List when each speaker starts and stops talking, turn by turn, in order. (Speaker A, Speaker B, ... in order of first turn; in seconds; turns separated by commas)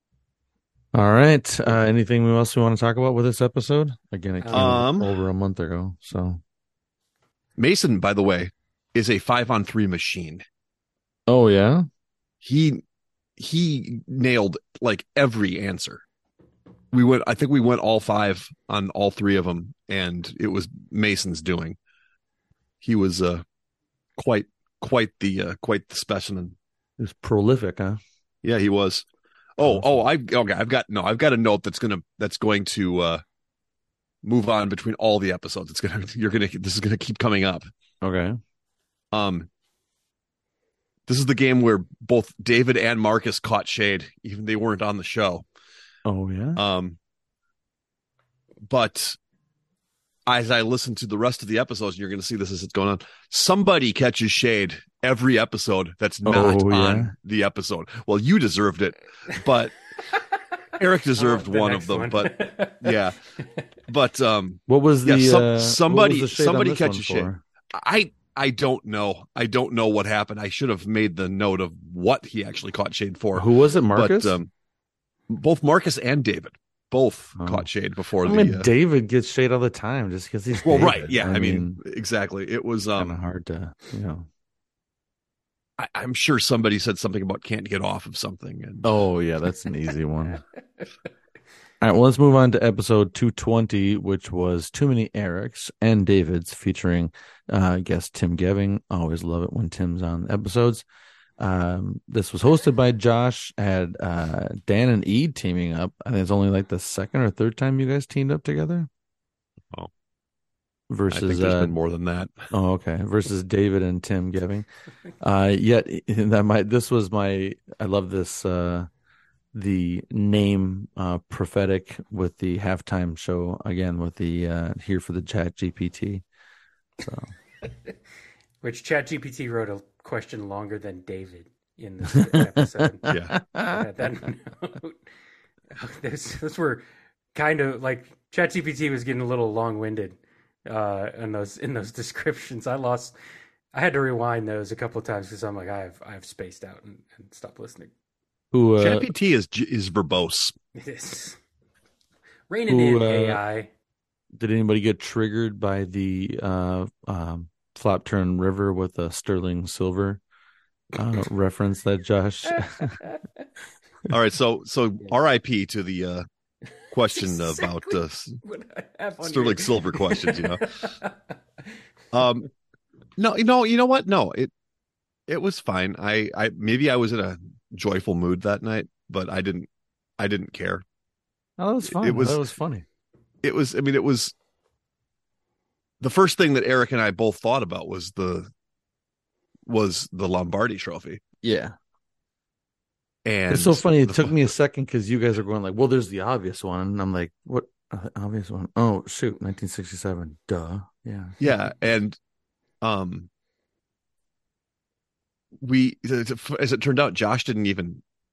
Speaker A: 0.9-6.4, Speaker B: 4.4-4.8, Speaker C: 4.5-5.1, Speaker C: 7.6-10.4, Speaker A: 11.3-11.8, Speaker C: 12.4-12.8, Speaker C: 13.4-16.0, Speaker C: 16.9-21.8, Speaker C: 22.8-23.4, Speaker C: 24.2-26.6, Speaker A: 27.0-28.0, Speaker C: 28.4-29.1, Speaker C: 29.6-33.2, Speaker C: 34.2-37.6, Speaker A: 38.0-38.4, Speaker C: 39.1-39.5, Speaker C: 41.1-45.4, Speaker A: 46.0-46.6, Speaker C: 46.5-47.0, Speaker C: 48.6-49.2, Speaker C: 50.3-59.9, Speaker A: 56.2-57.1, Speaker C: 60.8-63.2, Speaker B: 61.1-63.6, Speaker C: 63.9-74.5, Speaker A: 64.7-67.4, Speaker A: 73.3-74.4, Speaker C: 75.3-78.7, Speaker A: 77.3-77.7, Speaker A: 78.2-81.8, Speaker C: 80.6-83.1, Speaker A: 83.0-84.2, Speaker C: 85.8-88.9, Speaker A: 88.8-90.4, Speaker A: 91.8-100.8, Speaker A: 101.4-108.9, Speaker A: 110.9-111.7, Speaker C: 111.1-112.5, Speaker A: 112.5-114.7, Speaker A: 115.2-118.9, Speaker A: 119.5-126.2, Speaker A: 127.0-127.3, Speaker B: 128.6-133.1, Speaker A: 133.0-133.8, Speaker C: 133.1-133.3, Speaker B: 133.6-135.0, Speaker B: 135.7-143.1, Speaker B: 143.7-147.9, Speaker A: 148.5-149.1, Speaker C: 148.8-150.5, Speaker B: 150.7-151.4, Speaker B: 152.5-153.7, Speaker A: 152.7-153.4, Speaker A: 154.3-160.2, Speaker A: 160.9-163.0, Speaker B: 162.6-163.2, Speaker C: 164.1-166.2, Speaker C: 166.9-168.4, Speaker B: 167.1-171.2, Speaker C: 169.2-170.9, Speaker C: 172.1-172.5, Speaker C: 173.2-174.5, Speaker C: 175.3-180.8, Speaker A: 181.6-182.8, Speaker C: 181.9-182.4, Speaker C: 183.4-184.3, Speaker C: 186.0-188.5, Speaker C: 189.7-191.2, Speaker A: 191.4-191.7, Speaker C: 193.2-194.3, Speaker A: 193.5-201.4, Speaker C: 201.4-202.2, Speaker C: 202.8-203.3, Speaker C: 205.6-208.0